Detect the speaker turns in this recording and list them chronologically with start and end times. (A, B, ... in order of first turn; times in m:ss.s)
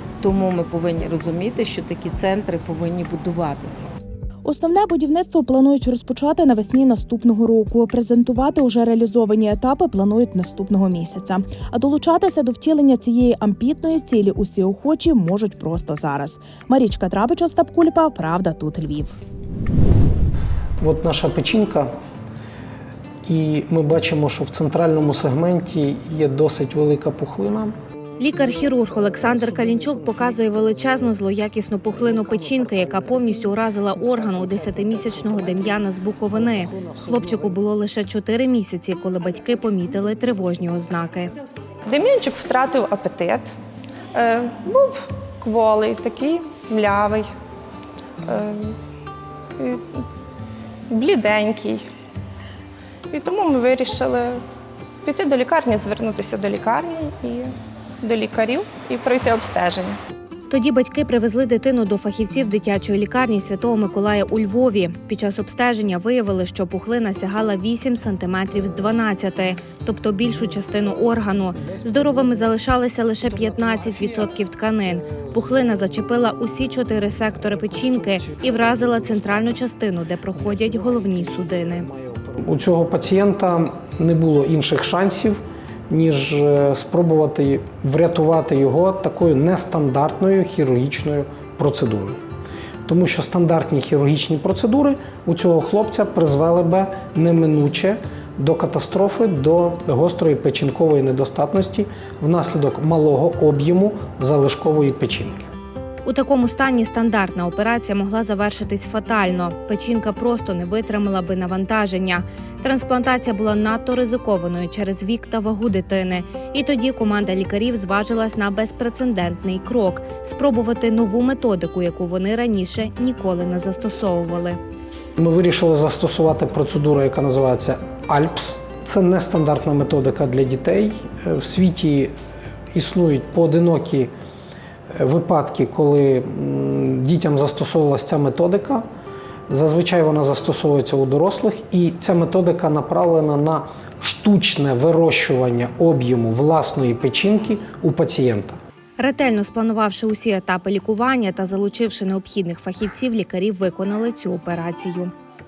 0:00.2-0:03.9 A
0:04.4-0:19.2 B
0:20.8-0:21.9 C
0:23.2-0:27.7 C
0:28.2-0:41.3 D
0:34.1-0:35.5 C
0:36.5-0:37.3 C
0:41.9-0:43.5 E
0:44.1-0:47.2 E
0:48.3-0:48.7 E
0:50.9-0:51.8 E
0:53.1-0:54.4 E
0:55.0-0:57.5 E
0:58.0-1:00.0 E
1:00.5-1:21.9 D
1:18.4-1:19.5 C
1:20.4-1:32.2 C
1:32.8-1:45.5 C
1:46.0-2:04.6 D
2:05.2-2:12.1 C
2:12.7-2:14.1 C
2:14.9-2:18.9 C
2:19.5-2:28.6 C
2:29.0-2:35.1 D